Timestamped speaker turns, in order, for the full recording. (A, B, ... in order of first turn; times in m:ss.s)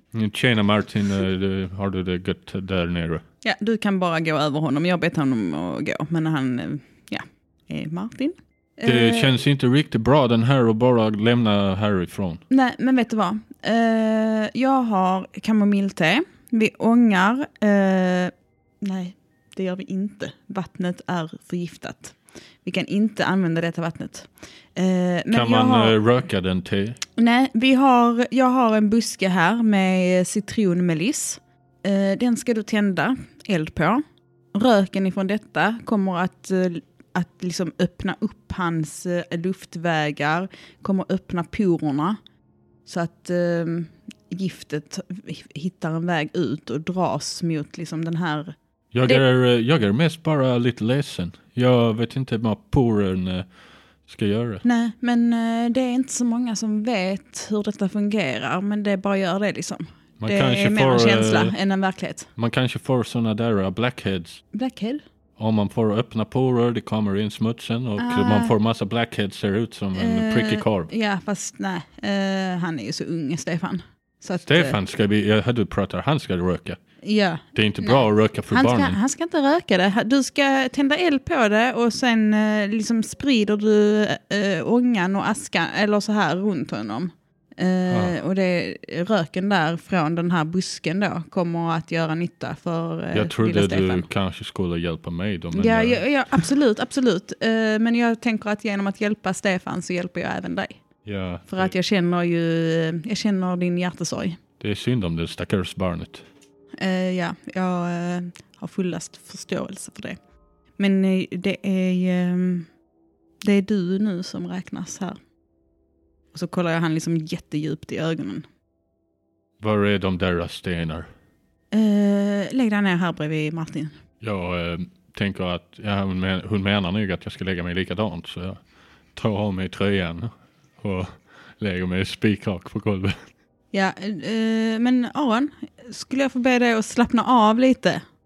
0:00.1-0:03.2 A
0:03.4-0:09.4 B
0:08.8-0:12.4 A
0:12.5-0:26.0 B
0:25.3-0:27.0 A
0:27.2-0:34.0 B
0:34.5-0:42.2 B
0:42.8-0:49.2 B
0:48.9-0:53.5 A
0:54.1-0:54.6 A
0:54.6-1:02.3 B
1:00.2-1:01.5 A
1:02.4-1:04.4 A
1:04.5-1:05.0 B
1:05.4-1:10.9 A
1:08.0-1:08.5 B
1:10.0-1:14.8 B
1:14.4-1:16.8 A
1:17.0-1:34.1 B
1:17.5-1:19.0 A
1:27.9-1:28.1 A
1:33.1-1:36.5 A
1:35.5-1:40.8 B
1:41.0-1:41.7 A
1:41.5-1:44.4 B
1:44.6-1:46.2 A
1:46.8-1:50.2 B
1:50.8-1:52.7 B
1:53.4-1:55.2 B
1:56.3-1:58.4 B
1:59.6-2:01.1 A
2:01.7-2:03.9 B
2:04.2-2:08.6 A
2:09.1-2:13.2 A
2:13.7-2:18.0 B